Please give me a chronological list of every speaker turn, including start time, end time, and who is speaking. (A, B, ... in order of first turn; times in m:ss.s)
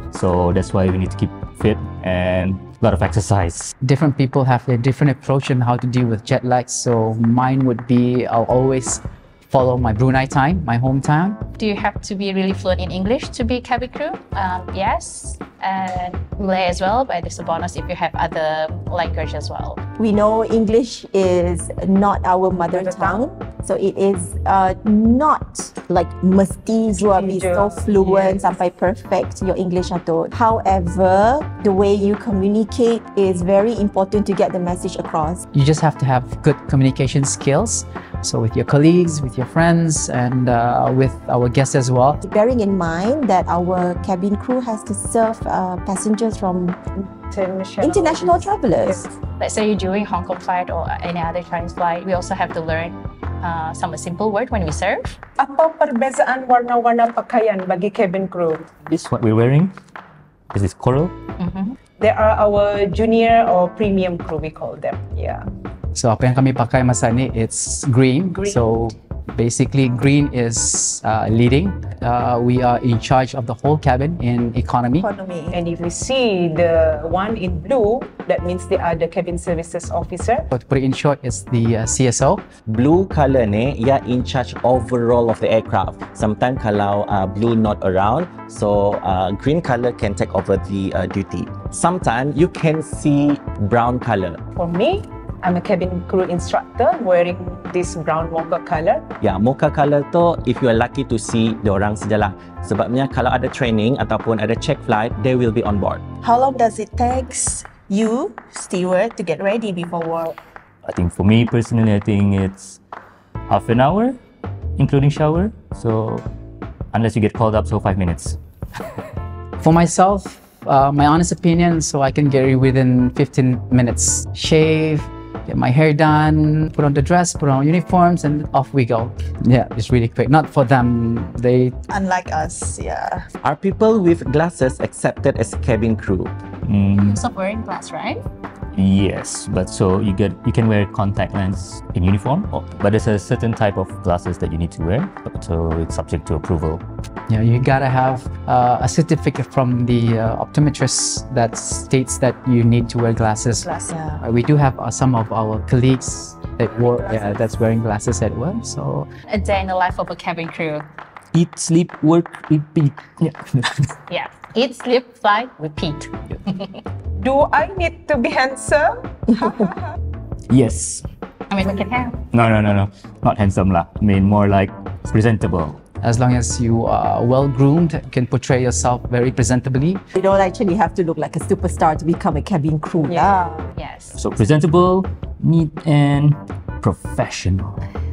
0:00.1-0:03.7 A
0:03.8-0:11.4 B
0:11.6-0:19.8 C
0:20.0-0:35.4 D
0:22.6-0:23.2 E
0:27.0-0:28.5 E
0:35.5-0:42.2 B
0:42.2-0:46.8 D
0:47.1-0:49.1 E
0:47.8-0:49.1 D
0:49.4-0:55.2 C
0:55.4-0:58.7 E
0:58.9-0:59.7 A
1:00.5-1:01.1 A
1:01.4-1:01.8 C
1:02.0-1:05.4 E
1:05.9-1:15.1 B
1:08.4-1:08.7 E
1:15.1-1:15.4 D
1:15.5-1:20.5 E
1:20.5-1:22.4 B
1:22.7-1:34.4 F
1:34.6-1:39.1 E
1:39.2-1:46.0 F
1:46.2-1:50.4 G
1:50.8-1:52.8 A
1:53.5-1:54.2 A
1:54.8-1:56.2 A
1:56.9-1:58.4 A
1:59.6-2:11.8 B
2:11.9-2:13.3 G
2:13.4-2:16.3 F
2:16.6-2:17.2 A
2:16.9-2:18.2 C
2:18.7-2:26.8 A
2:27.3-2:39.1 B
2:33.6-2:34.2 G
2:39.3-2:40.9 C
2:41.3-2:44.0 A
2:44.1-2:46.8 C
2:47.2-2:49.7 E
2:50.5-2:51.0 A
2:51.5-2:52.2 C
2:52.3-2:55.8 A
2:56.0-3:00.0 B
3:00.1-3:03.7 D
3:03.7-3:04.2 C
3:04.2-3:07.8 A